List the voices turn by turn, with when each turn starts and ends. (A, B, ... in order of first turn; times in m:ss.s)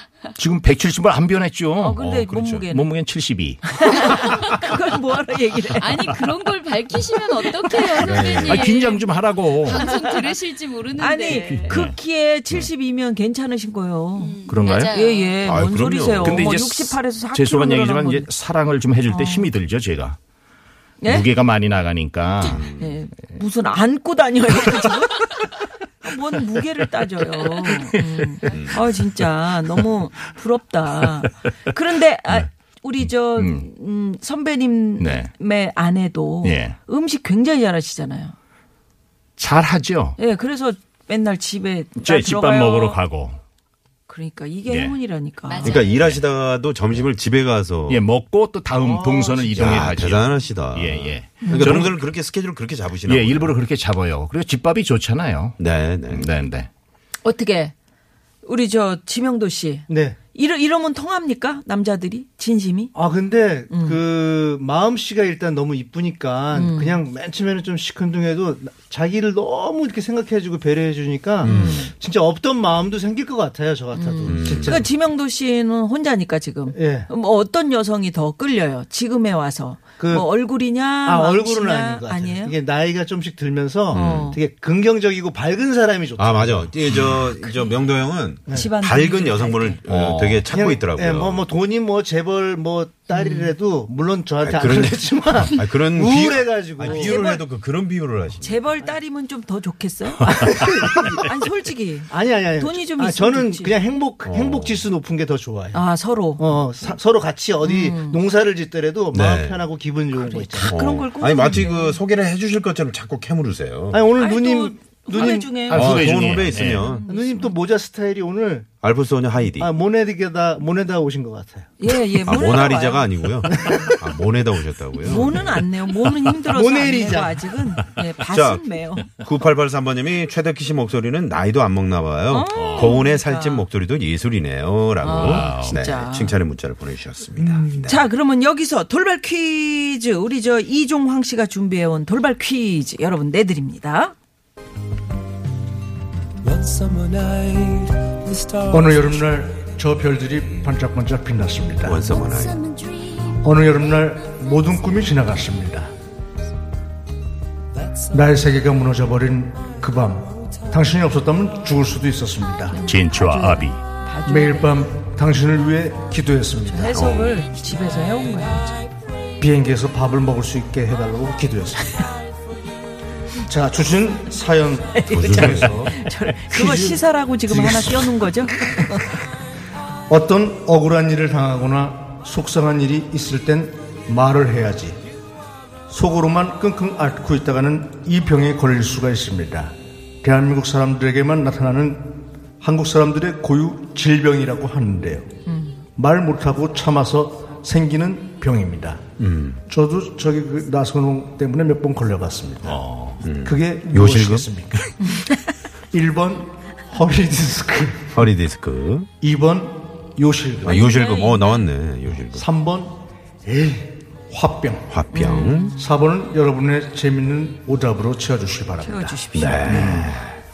0:00.4-0:02.0 A
0:01.8-0:02.9 B
0:02.0-0:02.7 C
0:02.7-0:04.0 A
0:03.7-0:06.1 B
0:05.7-0:11.8 D
0:08.0-0:08.8 C
0:08.2-0:09.9 A
0:09.8-0:10.2 B
0:11.0-0:14.4 B
0:11.3-0:11.9 A
0:14.2-0:15.4 D
0:14.5-0:14.9 A
0:14.9-0:18.3 B
0:15.4-0:16.6 C
0:16.2-0:20.2 A
0:19.1-0:19.5 B
0:21.0-0:21.3 B
0:21.1-0:22.6 A
0:22.4-0:23.0 C
0:22.7-0:25.5 B
0:26.0-0:38.4 B
0:27.6-0:27.9 A
0:28.4-0:28.8 C
0:33.0-0:33.7 A
0:35.0-0:35.3 A
0:36.4-0:36.7 A
0:39.4-0:40.2 A
0:40.2-0:43.0 B
0:42.0-0:43.4 A
0:44.1-0:45.8 B
0:44.7-0:44.9 A
0:45.4-0:46.2 D
0:45.6-0:48.0 C
0:45.9-0:46.2 A
0:47.9-0:52.0 A
0:48.8-0:49.5 E
0:49.6-0:53.5 C
0:53.0-0:56.7 A
0:55.6-0:56.3 C
0:57.2-0:57.7 B
0:58.4-1:02.9 B
0:59.9-1:00.2 E
1:02.9-1:14.9 E
1:03.7-1:04.0 B
1:06.5-1:07.0 B
1:11.4-1:11.9 B
1:11.4-1:11.9 C
1:13.9-1:22.6 B
1:14.3-1:14.8 C
1:16.7-1:17.1 E
1:20.0-1:20.3 E
1:21.0-1:26.6 E
1:23.9-1:24.3 C
1:23.9-1:24.4 B
1:26.2-1:31.4 C
1:28.5-1:29.8 B
1:29.9-1:30.4 A
1:30.5-1:37.2 E
1:33.1-1:33.5 B
1:34.4-1:38.6 C
1:36.9-1:37.4 B
1:38.4-1:40.3 B
1:40.2-1:41.2 E
1:41.2-1:43.7 B
1:42.1-1:45.8 E
1:44.2-1:44.8 C
1:45.7-1:46.5 B
1:46.4-1:50.7 E
1:47.6-1:48.2 B
1:49.1-1:49.6 C
1:50.2-1:52.0 B
1:50.6-1:54.1 C
1:53.9-1:55.6 E
1:54.2-1:57.6 B
1:55.2-1:57.0 C
1:55.7-1:56.9 A
1:57.0-1:58.7 E
1:58.8-1:59.7 C
1:59.6-2:01.7 E
2:01.8-2:04.0 B
2:02.2-2:05.6 C
2:03.5-2:04.0 E
2:05.0-2:09.1 B
2:06.5-2:07.5 E
2:08.3-2:18.0 C
2:12.3-2:13.6 B
2:12.5-2:13.0 A
2:15.0-2:15.8 A
2:15.0-2:16.3 B
2:17.8-2:24.1 B
2:26.5-2:27.7 A
2:28.7-2:32.0 E
2:31.8-2:32.6 C
2:32.4-2:33.3 D
2:33.4-2:35.9 E
2:38.1-2:42.8 E
2:42.7-2:44.8 B
2:42.8-2:43.8 A
2:44.2-2:47.0 E
2:46.7-2:48.8 B
2:46.9-2:47.4 C
2:49.4-2:52.1 E
2:53.4-2:56.0 E
2:54.9-2:59.1 B
2:55.1-2:55.9 C
2:56.5-2:58.1 E
3:00.1-3:05.0 E
3:05.9-3:15.3 E
3:15.5-3:15.8 B
3:16.0-3:19.0 E
3:19.2-3:19.6 C
3:19.7-3:22.8 E
3:22.6-3:23.2 A
3:23.2-3:24.5 C
3:23.4-3:24.8 E
3:25.9-3:28.1 E
3:28.1-3:29.1 C
3:29.2-3:30.9 E
3:30.6-3:32.4 C
3:30.8-3:31.3 B
3:32.3-3:32.9 E
3:33.4-3:34.9 E
3:34.9-3:35.7 C
3:35.1-3:35.7 B
3:35.7-3:39.2 E
3:38.8-3:40.0 B
3:39.3-3:40.2 C
3:39.7-3:40.1 A